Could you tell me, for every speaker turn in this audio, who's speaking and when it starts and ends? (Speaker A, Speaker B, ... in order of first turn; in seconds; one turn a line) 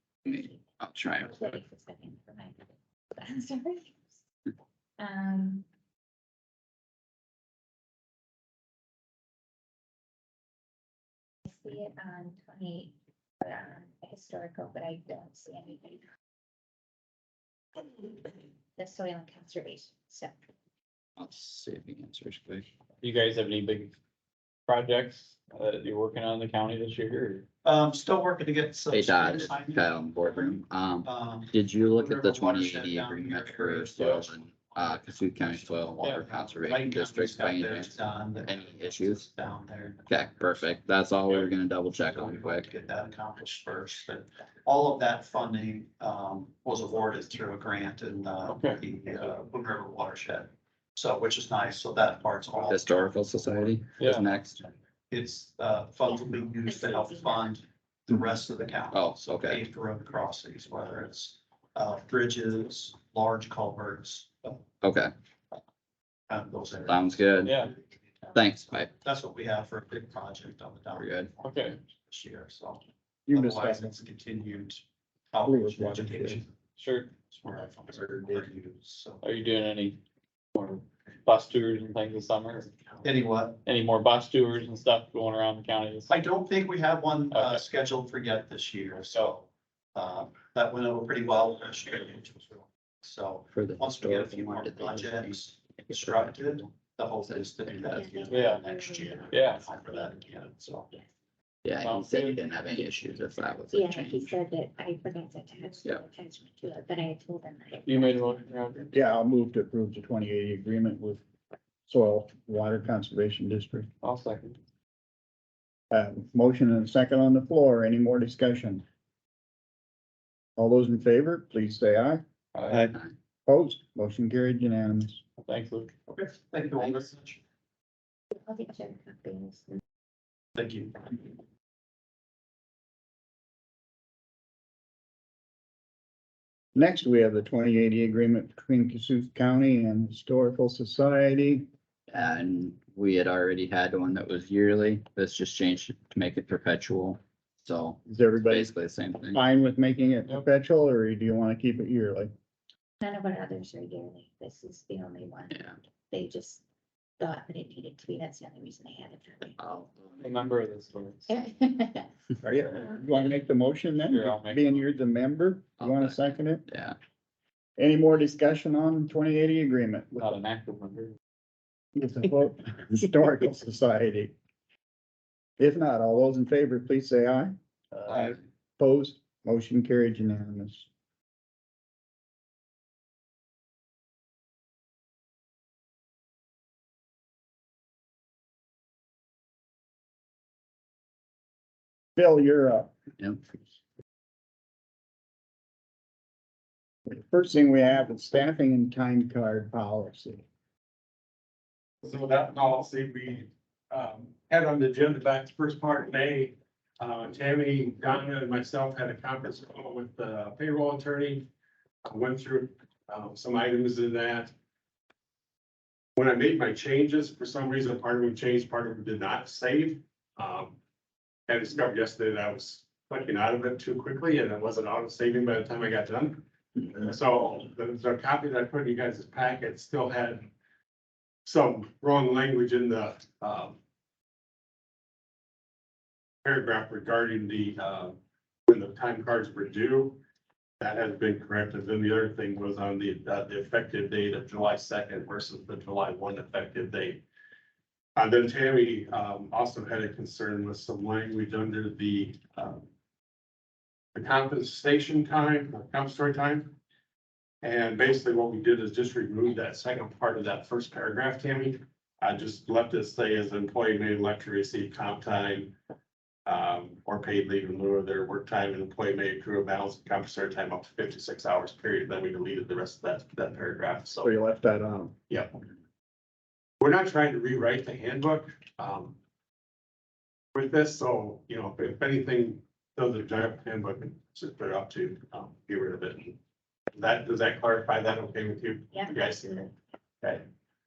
Speaker A: 0.3-0.6
Speaker B: 0.3-1.6
Speaker A: 1.2-4.1
Speaker A: 5.0-5.7
Speaker A: 11.4-16.0
Speaker A: 18.0-20.3
Speaker B: 21.2-22.7
Speaker C: 23.0-23.9
Speaker C: 24.7-27.5
Speaker D: 27.6-40.8
Speaker B: 28.9-39.3
Speaker B: 40.1-42.7
Speaker D: 42.0-53.1
Speaker C: 48.5-48.8
Speaker B: 52.7-54.6
Speaker C: 54.0-54.2
Speaker D: 55.1-64.7
Speaker A: 56.1-57.6
Speaker B: 58.9-59.6
Speaker B: 64.8-65.1
Speaker D: 66.3-68.4
Speaker B: 66.9-67.6
Speaker C: 67.5-67.7
Speaker B: 68.3-68.9
Speaker D: 68.9-76.5
Speaker B: 71.0-71.3
Speaker C: 71.4-71.8
Speaker E: 73.3-74.0
Speaker E: 75.5-76.4
Speaker C: 76.8-77.1
Speaker D: 77.3-79.2
Speaker E: 77.9-78.5
Speaker C: 79.2-80.0
Speaker C: 80.5-82.7
Speaker D: 83.0-83.6
Speaker C: 83.7-86.1
Speaker D: 86.1-100.9
Speaker C: 87.3-87.6
Speaker B: 93.5-96.7
Speaker B: 97.2-98.1
Speaker A: 98.0-99.8
Speaker C: 98.3-98.6
Speaker C: 99.3-99.7
Speaker B: 101.7-104.4
Speaker C: 101.8-102.4
Speaker A: 103.7-108.5
Speaker C: 107.9-108.9
Speaker E: 108.9-111.2
Speaker E: 111.9-113.9
Speaker C: 114.0-114.6
Speaker E: 115.9-118.8
Speaker E: 120.6-122.2
Speaker C: 122.5-122.9
Speaker E: 123.5-125.2
Speaker C: 125.5-125.9
Speaker D: 126.1-127.4
Speaker A: 128.3-129.8
Speaker D: 130.6-131.2
Speaker E: 136.8-141.7
Speaker B: 142.1-149.4
Speaker E: 148.1-148.7
Speaker E: 149.3-152.3
Speaker A: 153.0-156.6
Speaker B: 155.5-155.8
Speaker A: 157.2-159.6
Speaker B: 159.6-160.3
Speaker C: 160.2-161.3
Speaker A: 161.3-162.1
Speaker E: 162.4-166.6
Speaker C: 164.1-164.8
Speaker B: 165.8-167.0
Speaker E: 167.8-170.3
Speaker C: 170.2-171.2
Speaker E: 171.9-174.3
Speaker E: 175.6-177.6
Speaker B: 178.1-178.4
Speaker E: 178.1-180.9
Speaker E: 192.2-192.9
Speaker E: 197.1-200.4
Speaker F: 202.0-211.5
Speaker F: 212.1-214.5
Speaker F: 216.2-220.8
Speaker F: 221.5-226.4
Speaker F: 227.0-230.5
Speaker F: 231.4-233.8
Speaker F: 236.4-238.2
Speaker F: 238.7-240.2
Speaker F: 240.8-247.2
Speaker F: 248.2-252.8
Speaker F: 254.2-256.7
Speaker F: 257.6-265.7
Speaker F: 266.5-274.3
Speaker E: 274.2-275.2
Speaker F: 276.8-279.2
Speaker F: 280.6-286.4
Speaker F: 287.0-289.7